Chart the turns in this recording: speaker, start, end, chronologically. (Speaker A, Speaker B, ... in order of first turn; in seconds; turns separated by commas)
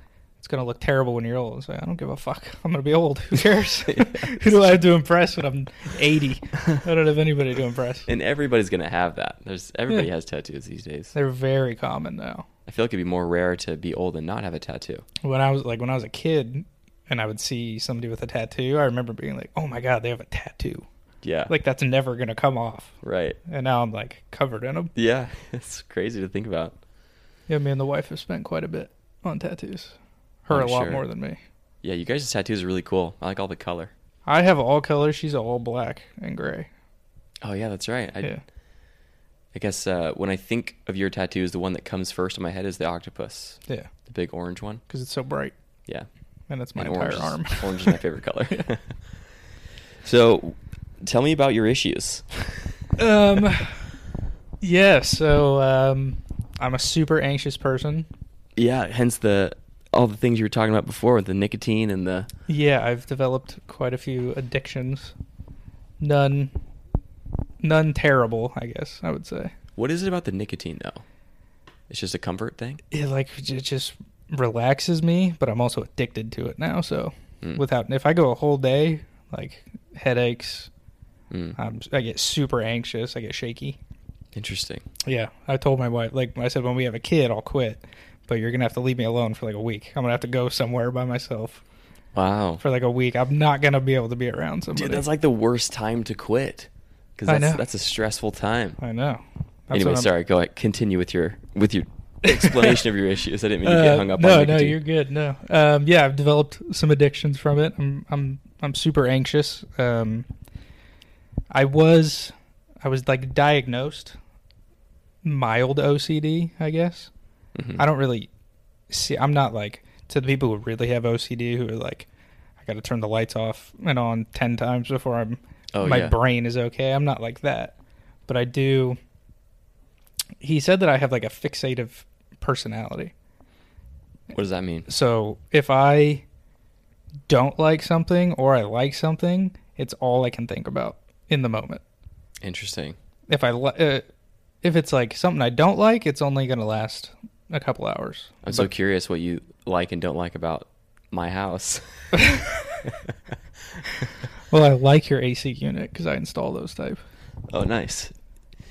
Speaker A: 0.4-8.1, Speaker B: 3.8-4.5, Speaker B: 8.1-11.1, Speaker A: 11.1-12.4, Speaker B: 12.7-15.1, Speaker A: 15.2-20.9, Speaker B: 21.2-21.5, Speaker A: 21.5-24.9, Speaker B: 23.0-23.4, Speaker B: 24.9-26.8, Speaker A: 27.5-31.4, Speaker B: 30.5-31.0, Speaker B: 31.8-33.9, Speaker A: 34.2-36.7, Speaker B: 37.4-38.3, Speaker B: 39.5-44.8, Speaker A: 44.9-45.5, Speaker A: 46.5-48.0, Speaker B: 46.7-49.4, Speaker B: 50.0-52.8, Speaker A: 53.0-54.0, Speaker A: 54.6-58.1, Speaker B: 58.5-62.3, Speaker A: 62.5-65.2, Speaker A: 66.0-66.5, Speaker A: 67.6-69.5, Speaker B: 69.8-71.0, Speaker B: 71.9-72.8, Speaker A: 72.9-80.7, Speaker B: 81.3-81.6, Speaker A: 81.5-83.8, Speaker B: 84.3-84.8, Speaker A: 85.0-91.6, Speaker B: 92.1-92.6, Speaker A: 92.6-95.0, Speaker B: 94.7-98.8, Speaker A: 97.3-97.6, Speaker A: 98.8-100.1, Speaker B: 99.7-104.8, Speaker A: 102.3-102.8, Speaker A: 103.6-110.3, Speaker A: 111.5-114.2, Speaker A: 115.2-117.1, Speaker B: 117.5-117.8, Speaker A: 117.8-118.3, Speaker A: 118.9-122.1, Speaker A: 122.6-127.7, Speaker B: 125.7-126.1, Speaker A: 128.3-129.0, Speaker A: 130.4-133.1, Speaker B: 134.3-134.9, Speaker A: 134.9-136.2, Speaker A: 137.3-141.8, Speaker B: 142.4-143.0, Speaker A: 143.3-144.0, Speaker A: 144.6-148.7, Speaker B: 148.4-152.2, Speaker A: 152.2-152.7, Speaker B: 152.8-153.1, Speaker A: 154.5-157.0, Speaker B: 157.5-158.1